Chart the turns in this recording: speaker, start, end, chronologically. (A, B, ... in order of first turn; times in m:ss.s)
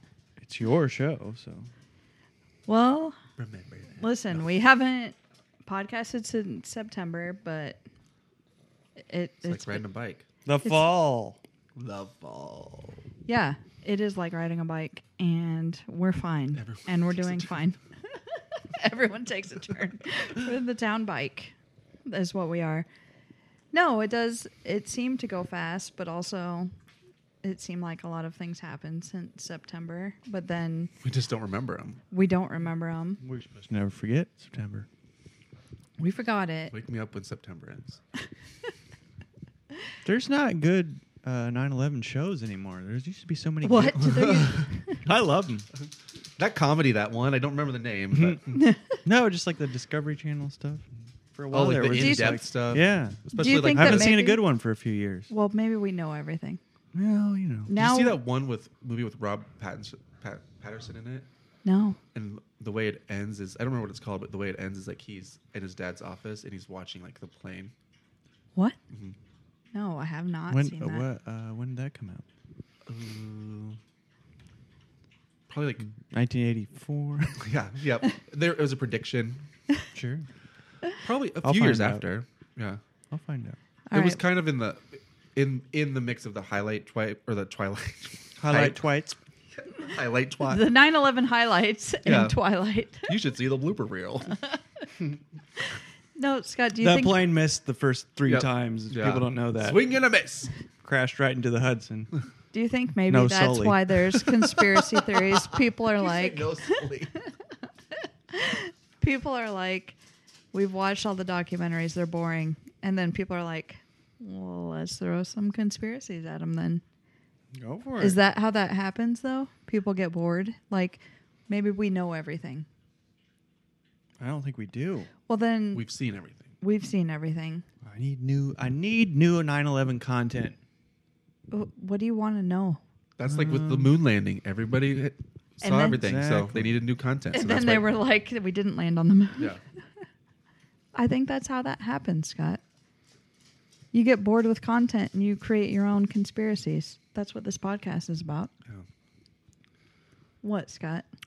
0:00.4-0:01.7 A
0:02.7-0:03.2 B
0:03.4-0:04.5 C
0:04.0-0:07.8 B
0:09.0-0:09.8 B
0:09.4-0:10.2 C
0:10.4-0:11.4 A
0:10.6-0:10.9 B
0:11.8-0:13.0 C
0:13.2-0:17.8 B
0:16.5-0:17.6 C
0:18.8-0:21.5 B
0:22.1-0:22.8 B
0:23.7-0:26.7 B
0:27.4-0:30.9 B
0:31.0-0:32.0 C
0:32.1-0:33.2 B
0:33.2-0:34.9 A
0:36.0-0:36.7 B
0:36.7-0:38.0 C
0:40.0-0:44.5 A
0:43.6-0:45.0 B
0:44.0-0:44.7 C
0:45.0-0:45.7 A
0:46.4-0:48.6 C
0:48.1-0:48.4 A
0:48.5-0:49.0 B
0:49.0-0:55.3 A
0:51.5-0:54.2 C
0:51.9-0:52.4 B
0:53.3-0:54.4 B
0:55.3-0:56.6 B
0:56.9-0:57.7 A
0:57.7-0:58.2 B
0:57.7-1:01.3 C
1:01.6-1:02.0 B
1:02.1-1:07.7 C
1:09.7-1:11.1 B
1:10.5-1:12.2 A
1:12.8-1:13.8 C
1:15.5-1:15.9 C
1:15.8-1:17.5 A
1:17.4-1:19.4 C
1:19.9-1:20.3 A
1:21.0-1:22.8 C
1:21.4-1:22.1 A
1:23.1-1:23.6 A
1:23.9-1:24.2 B
1:23.9-1:28.8 C
1:28.4-1:29.1 A
1:29.7-1:30.7 C
1:30.4-1:33.1 B
1:32.0-1:32.4 C
1:33.0-1:34.4 C
1:34.3-1:34.6 B
1:35.6-1:37.2 B
1:36.8-1:39.9 A
1:38.3-1:40.5 C
1:40.8-1:42.1 A
1:42.5-1:46.7 B
1:43.1-1:44.3 A
1:45.8-1:47.2 C
1:48.3-1:50.0 B
1:50.5-1:56.8 B
1:57.5-1:58.2 A
1:58.0-2:02.7 B
2:04.2-2:05.1 A
2:05.3-2:05.8 B
2:05.7-2:06.5 C
2:06.6-2:07.6 B
2:07.8-2:10.6 A
2:11.5-2:12.8 B
2:13.2-2:17.9 C
2:13.2-2:14.0 A
2:15.6-2:16.0 B
2:15.8-2:16.7 A
2:17.3-2:19.5 B
2:20.9-2:22.6 B
2:23.9-2:28.5 B
2:30.4-2:31.0 B